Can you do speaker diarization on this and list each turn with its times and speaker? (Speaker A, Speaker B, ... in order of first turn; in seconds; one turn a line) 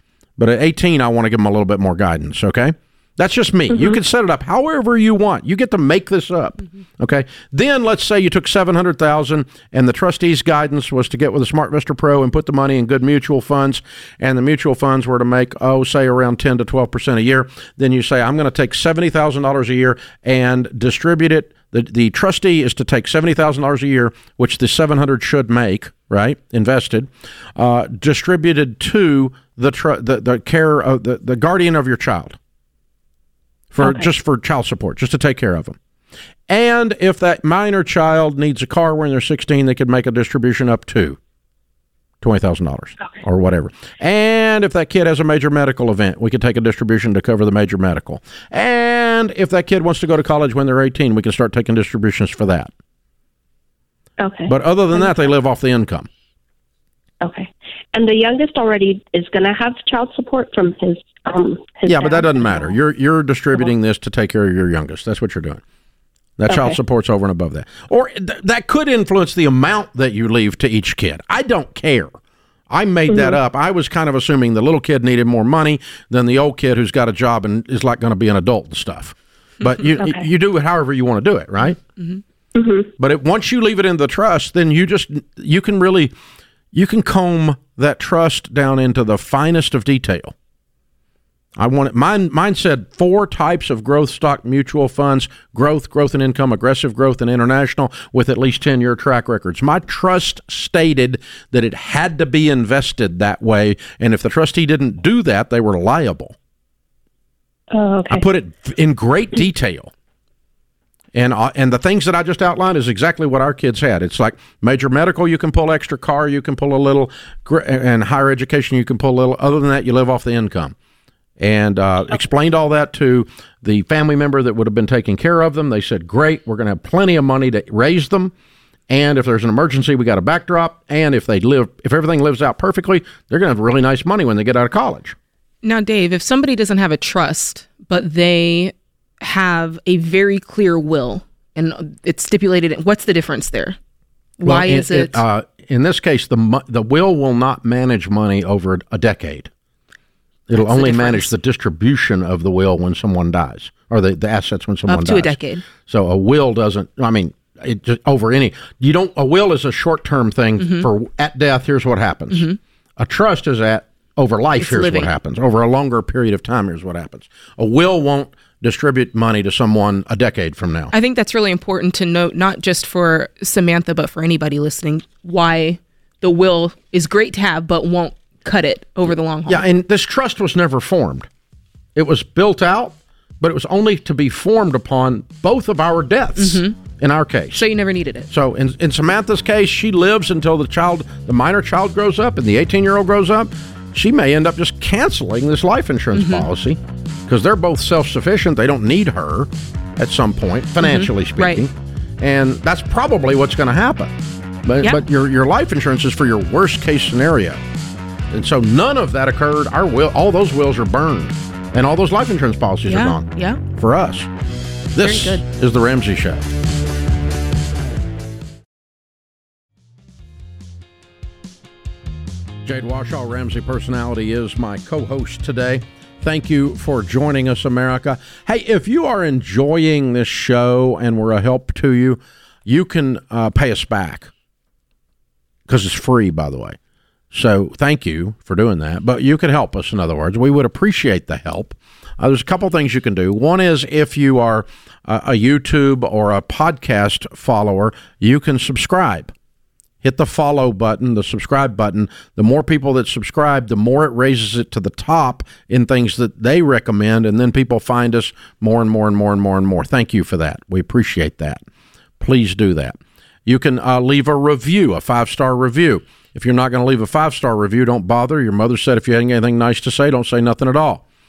Speaker A: 0.4-32.4
Speaker A: 33.7-35.8
Speaker A: 36.5-41.2
Speaker A: 42.2-52.7
Speaker B: 54.2-55.1
Speaker A: 54.5-56.1
Speaker B: 57.2-62.7
Speaker A: 61.9-65.6
Speaker A: 66.4-72.2
Speaker B: 66.5-66.8
Speaker A: 72.7-81.8
Speaker B: 73.1-73.4
Speaker B: 80.0-80.3
Speaker C: 82.0-82.2
Speaker B: 82.5-82.9
Speaker A: 83.0-86.1
Speaker A: 86.7-90.3
Speaker A: 91.6-106.3
Speaker B: 107.7-108.2
Speaker A: 108.1-109.9
Speaker A: 111.1-120.8
Speaker A: 121.4-128.3
Speaker A: 128.9-135.2
Speaker C: 135.6-143.8
Speaker C: 144.4-145.2
Speaker A: 144.4-149.5
Speaker A: 150.5-170.9
Speaker C: 150.6-151.3
Speaker C: 154.9-155.6
Speaker C: 160.6-160.9
Speaker C: 162.3-162.6
Speaker C: 164.6-165.1
Speaker C: 170.9-179.7
Speaker A: 179.5-181.3
Speaker A: 181.9-187.6
Speaker C: 186.4-186.8
Speaker C: 187.5-188.3
Speaker A: 188.3-204.1
Speaker C: 196.1-196.5
Speaker C: 200.8-201.6
Speaker A: 204.7-207.6
Speaker A: 208.3-214.3
Speaker C: 212.8-213.6
Speaker A: 214.9-216.5
Speaker C: 215.0-215.4
Speaker A: 222.7-234.3
Speaker A: 235.7-236.8
Speaker A: 237.3-249.3
Speaker A: 250.0-261.6
Speaker A: 262.2-271.0